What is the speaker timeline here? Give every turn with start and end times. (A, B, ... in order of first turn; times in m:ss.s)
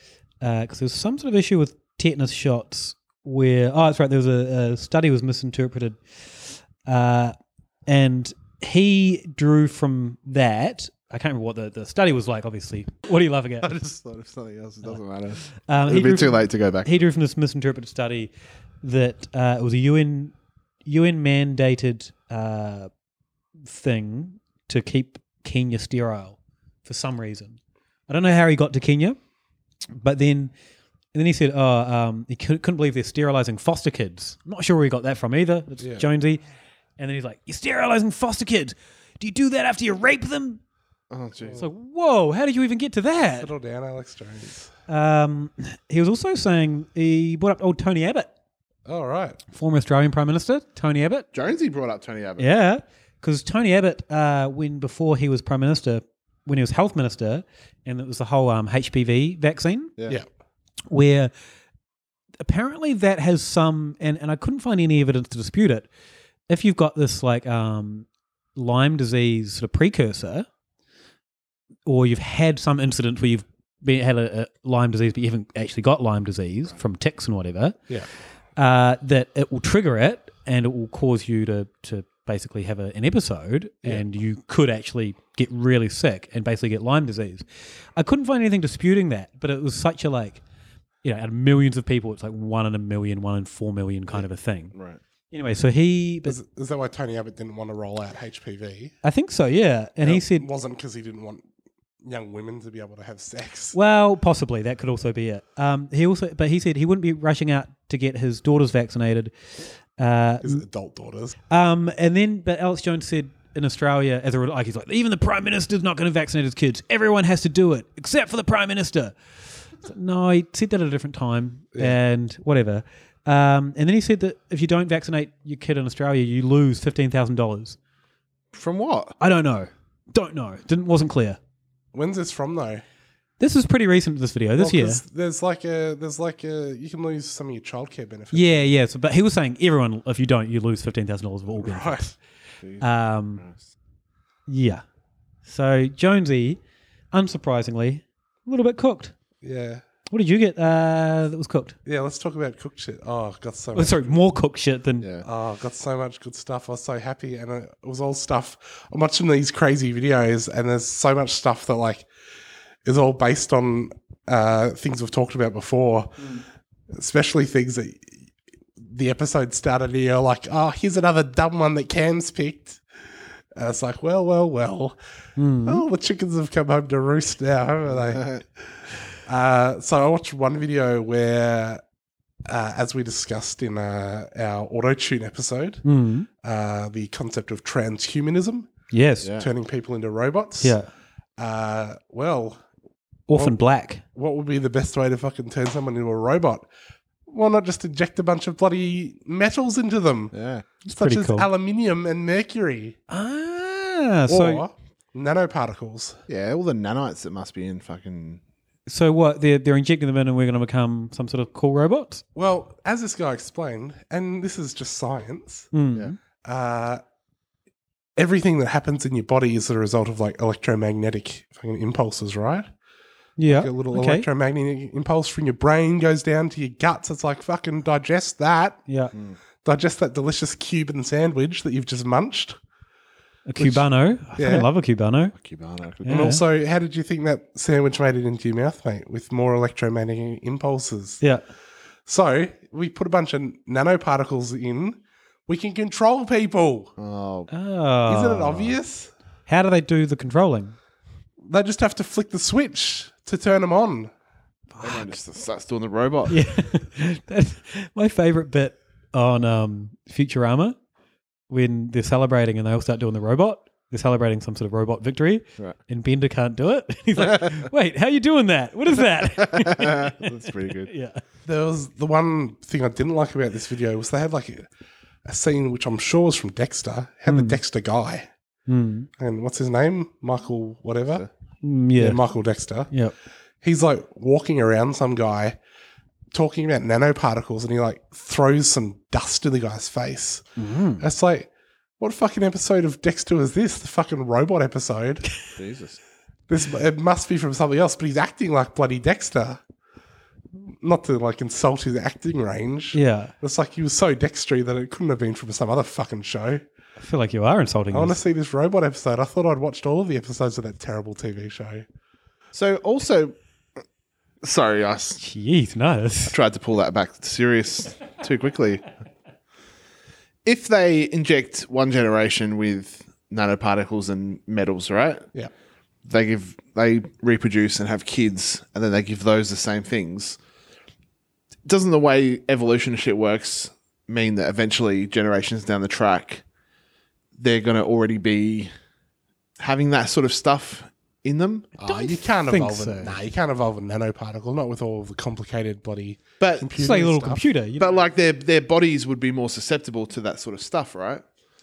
0:00.4-0:07.3 A
0:07.9-0:13.7 A
0:13.6-0:16.9 B
0:14.8-0:18.3 A
0:18.8-0:20.3 A
0:20.8-0:22.9 A
0:23.6-0:27.6 A
0:28.1-0:29.2 A
0:30.0-0:30.5 A
0:31.1-0:36.4 A
0:37.0-0:40.6 A
0:41.1-0:41.6 B
0:41.5-0:43.5 A
0:43.4-0:44.7 C
0:44.9-0:48.3 A
0:48.8-0:49.4 C
0:49.5-0:51.3 A
0:51.3-0:52.4 B
0:52.4-0:59.9 A
1:00.9-1:01.3 A
1:02.4-1:05.9 A
1:06.5-1:10.4 A
1:11.8-1:17.8 A
1:18.6-1:30.4 A
1:31.0-1:34.7 A
1:34.7-1:35.0 B
1:35.3-1:36.4 A
1:36.2-1:38.9 C
1:39.0-1:40.5 A
1:40.0-1:41.4 C
1:42.0-1:43.8 C
1:43.7-1:49.3 A
1:50.0-1:50.6 A
1:50.4-1:51.4 C
1:51.5-1:59.2 A
1:59.8-2:07.8 A
2:08.5-2:09.1 B
2:09.2-2:11.4 A
2:11.9-2:12.8 C
2:13.4-2:15.0 A
2:14.6-2:18.7 C
2:18.3-2:22.0 A
2:21.6-2:22.2 C
2:22.8-2:23.4 A
2:24.5-2:24.8 A
2:25.4-2:26.6 A
2:27.1-2:29.1 A
2:29.4-2:29.8 C
2:30.1-2:31.8 A
2:31.8-2:34.1 C
2:33.7-2:35.1 A
2:35.0-2:35.2 B
2:35.2-2:42.1 C
2:42.8-2:46.2 C
2:46.9-2:48.1 C
2:48.8-2:52.8 C
2:53.5-2:55.0 C
2:55.4-2:55.8 A
2:55.6-2:58.6 C
2:57.9-2:58.4 B
2:59.2-3:01.8 C
3:02.5-3:05.8 C
3:05.8-3:06.3 A
3:06.4-3:08.7 C
3:08.9-3:09.3 A
3:09.2-3:09.5 B
3:09.4-3:10.8 C
3:10.6-3:10.9 A
3:11.4-3:12.6 C
3:13.3-3:14.0 A
3:13.3-3:13.6 C
3:14.1-3:16.7 C
3:17.3-3:20.3 C
3:20.3-3:20.6 B
3:20.8-3:23.0 C
3:20.9-3:21.5 A
3:23.1-3:24.6 A
3:24.3-3:26.2 C
3:26.3-3:28.4 B
3:28.9-3:32.2 A
3:32.3-3:35.7 C
3:35.7-3:36.2 A
3:36.4-3:37.0 C
3:38.2-3:42.7 C
3:43.4-3:44.3 A
3:43.5-3:48.8 C
3:49.6-3:52.6 C
3:53.4-3:55.3 A
3:53.6-3:54.7 C
3:55.3-3:56.2 B
3:56.0-3:56.4 A
3:56.1-4:01.2 C
4:02.0-4:06.9 C
4:07.0-4:07.5 B
4:07.5-4:08.7 A
4:08.1-4:09.1 C
4:09.5-4:10.8 A
4:11.4-4:14.1 C
4:14.7-4:15.1 A
4:14.8-4:16.4 B
4:16.3-4:20.8 A
4:21.5-4:30.2 A
4:27.2-4:27.5 B
4:29.2-4:30.9 B
4:30.8-4:31.2 A
4:31.4-4:34.7 C
4:35.2-4:38.3 C
4:37.3-4:37.6 A
4:38.7-4:39.1 A
4:39.2-4:41.2 C
4:41.6-4:42.2 A
4:42.0-4:42.9 C
4:43.6-4:45.6 C
4:46.3-4:50.5 C
4:50.6-4:51.0 A
4:51.0-4:55.2 C
4:55.6-4:56.0 B
4:56.5-4:59.6 C
5:00.8-5:06.6 C
5:02.9-5:03.3 A
5:07.0-5:08.2 A
5:07.9-5:11.8 C
5:12.5-5:13.3 B
5:14.4-5:15.2 B
5:15.2-5:16.3 A
5:16.3-5:18.9 B
5:20.4-5:25.3 B
5:26.0-5:30.4 B
5:31.6-5:36.4 B
5:37.4-5:38.7 B
5:39.6-5:41.8 B
5:41.8-5:47.4 C
5:41.8-5:43.2 A
5:46.4-5:46.7 B
5:46.7-5:47.9 A
5:47.8-5:51.2 B